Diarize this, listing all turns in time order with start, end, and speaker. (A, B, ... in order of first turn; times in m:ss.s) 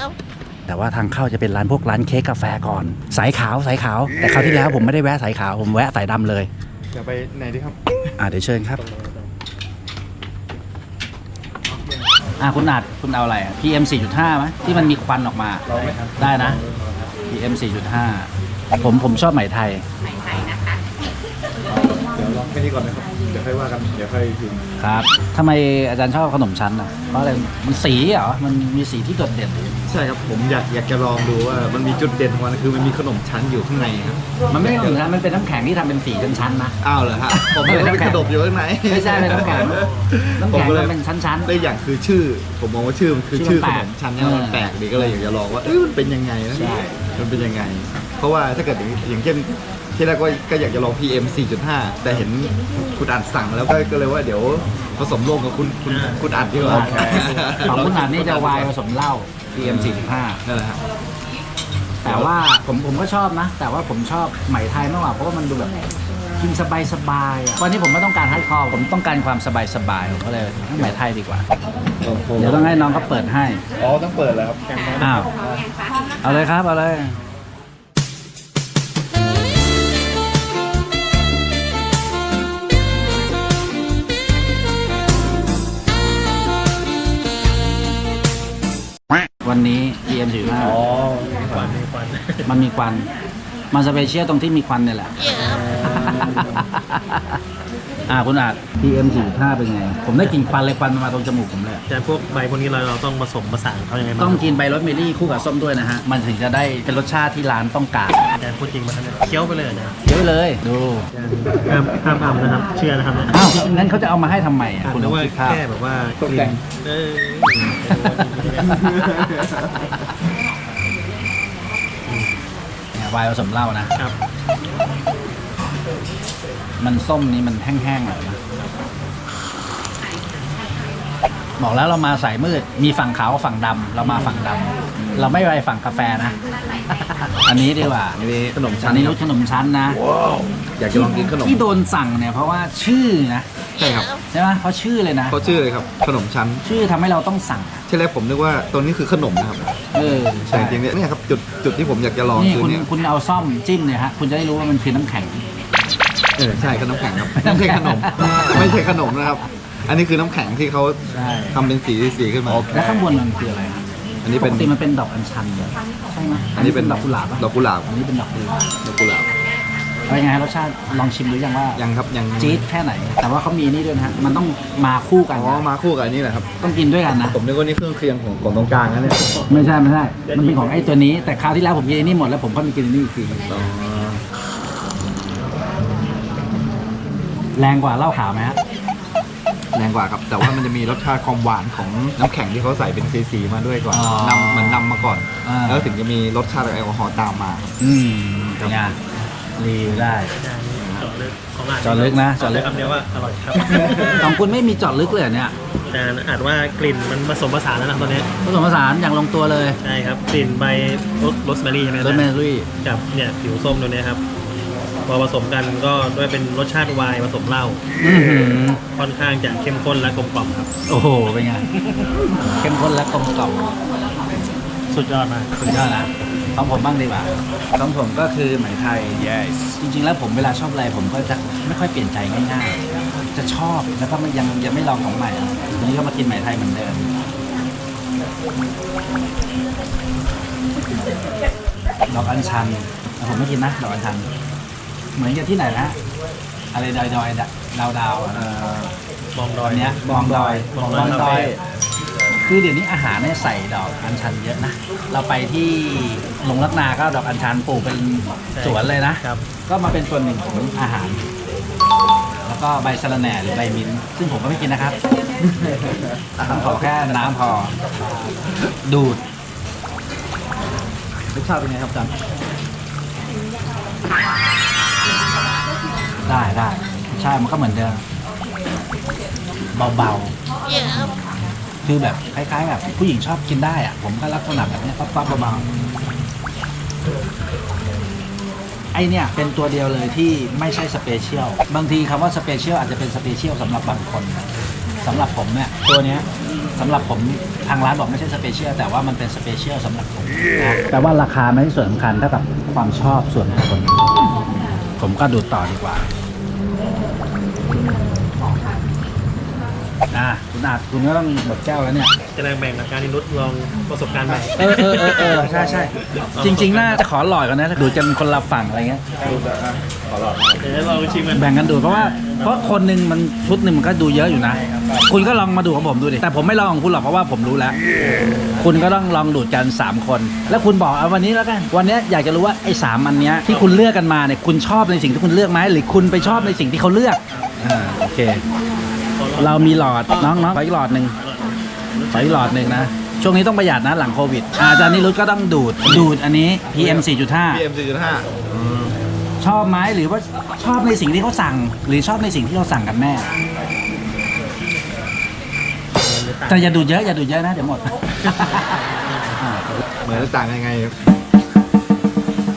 0:00.7-0:06.5 A
0:06.9-0:08.0 B
0:08.2-0:08.8 A
0:08.8-0:09.3 C
0:12.4-0:16.6 A
0:15.7-0:16.9 B
0:15.7-0:16.0 C
0:17.3-0:18.3 A
0:18.8-0:19.8 A
0:21.7-0:24.6 B
0:24.8-0:29.9 A
0:29.9-0:35.0 B
0:34.5-0:36.8 A
0:36.8-0:58.7 B
0:37.3-0:38.3 A
0:38.9-0:39.8 A
0:39.5-0:40.1 C
0:40.4-0:41.5 A
0:43.3-0:45.3 A
0:46.5-0:47.0 A
0:55.9-0:57.9 C
0:56.6-1:00.4 A
0:59.6-1:00.8 B
1:02.0-1:05.7 A
1:02.0-1:02.3 B
1:06.4-1:11.4 A
1:12.0-1:12.8 B
1:12.4-1:13.6 A
1:13.8-1:14.6 B
1:14.7-1:15.6 C
1:15.0-1:15.3 A
1:16.2-1:17.2 A
1:29.4-1:30.8 A
1:30.6-1:31.8 B
1:31.5-1:32.5 C
1:32.4-1:33.1 A
1:33.7-1:35.2 A
1:35.4-1:36.6 B
1:35.9-1:37.2 A
1:38.1-1:41.8 A
1:41.9-1:44.5 C
1:44.2-1:48.3 A
1:48.4-1:50.0 C
1:50.0-1:51.1 A
1:51.1-1:53.6 C
1:53.3-1:55.6 A
1:54.8-1:58.8 C
1:56.2-1:56.6 B
1:58.7-1:59.9 B
2:02.1-2:02.4 C
2:03.0-2:04.0 A
2:06.8-2:08.4 A
2:11.6-2:16.4 A
2:14.0-2:14.4 C
2:15.0-2:15.3 B
2:17.4-2:18.2 A
2:18.2-2:19.2 B
2:18.8-2:20.0 A
2:20.8-2:21.6 B
2:20.9-2:23.5 A
2:23.8-2:24.1 B
2:24.3-2:25.4 A
2:25.3-2:26.6 B
2:26.6-2:27.8 A
2:27.9-2:29.7 B
2:29.9-2:30.8 A
2:30.5-2:32.9 B
2:32.4-2:35.4 A
2:36.4-2:41.0 B
2:37.3-2:38.3 A
2:41.1-2:41.6 A
2:41.5-2:42.8 B
2:42.7-2:43.8 A
2:44.2-2:44.7 B
2:44.4-2:48.7 A
2:46.6-2:47.9 B
2:48.8-2:49.3 B
2:50.1-2:51.8 A
2:51.8-2:52.6 B
2:52.4-2:55.6 A
2:55.3-2:56.5 B
2:56.6-2:57.4 A
2:57.3-2:59.2 B
2:59.2-3:01.4 C
2:59.5-3:03.5 A
3:03.5-3:04.2 B
3:07.6-3:08.6 A
3:09.7-3:17.7 B
3:13.9-3:14.8 A
3:15.4-3:15.9 A
3:17.8-3:19.0 A
3:19.6-3:20.3 A
3:20.4-3:24.2 C
3:20.8-3:21.1 B
3:21.8-3:22.7 A
3:23.7-3:24.0 B
3:24.1-3:25.5 A
3:25.9-3:28.3 C
3:28.4-3:29.8 A
3:29.8-3:32.3 C
3:32.0-3:32.7 A
3:32.8-3:34.2 C
3:35.1-3:37.8 C
3:38.0-3:38.8 A
3:39.0-3:40.7 C
3:40.9-3:41.7 A
3:42.4-3:43.7 A
3:44.9-3:45.9 C
3:45.7-3:49.3 A
3:49.8-3:52.8 A
3:53.3-3:57.1 A
4:02.1-4:04.3 A
4:05.2-4:06.0 A
4:06.7-4:08.5 A
4:08.3-4:08.9 B
4:09.4-4:11.6 C
4:09.6-4:11.6 A
4:10.5-4:11.6 B
4:12.4-4:21.2 A
4:18.5-4:19.4 C
4:22.4-4:25.0 A
4:25.4-4:26.9 B
4:26.4-4:27.7 A
4:28.8-4:29.2 A
4:31.3-4:32.2 B
4:36.3-4:38.0 A
4:39.8-4:40.4 A
4:41.8-4:45.7 A
4:48.9-4:54.5 A
4:55.0-4:56.2 A
4:56.8-5:00.3 A
5:00.9-5:04.0 A
5:05.0-5:06.1 A
5:10.1-5:12.1 A
5:12.3-5:17.0 C
5:14.6-5:19.0 A
5:19.2-5:20.7 B
5:20.6-5:22.8 C
5:21.3-5:27.8 A
5:24.3-5:25.1 C
5:28.0-5:28.8 C
5:28.6-5:38.4 A
5:33.5-5:33.8 C
5:36.1-5:36.7 C
5:37.3-5:37.6 C
5:39.2-5:42.8 C
5:39.4-5:41.2 A
5:42.1-5:47.6 A
5:46.8-5:49.0 B
5:49.4-5:53.3 A
5:55.9-5:56.9 C
5:56.5-5:58.7 A
5:58.2-5:59.4 C
5:59.4-5:59.8 A
6:00.0-6:00.3 C
6:00.0-6:01.0 B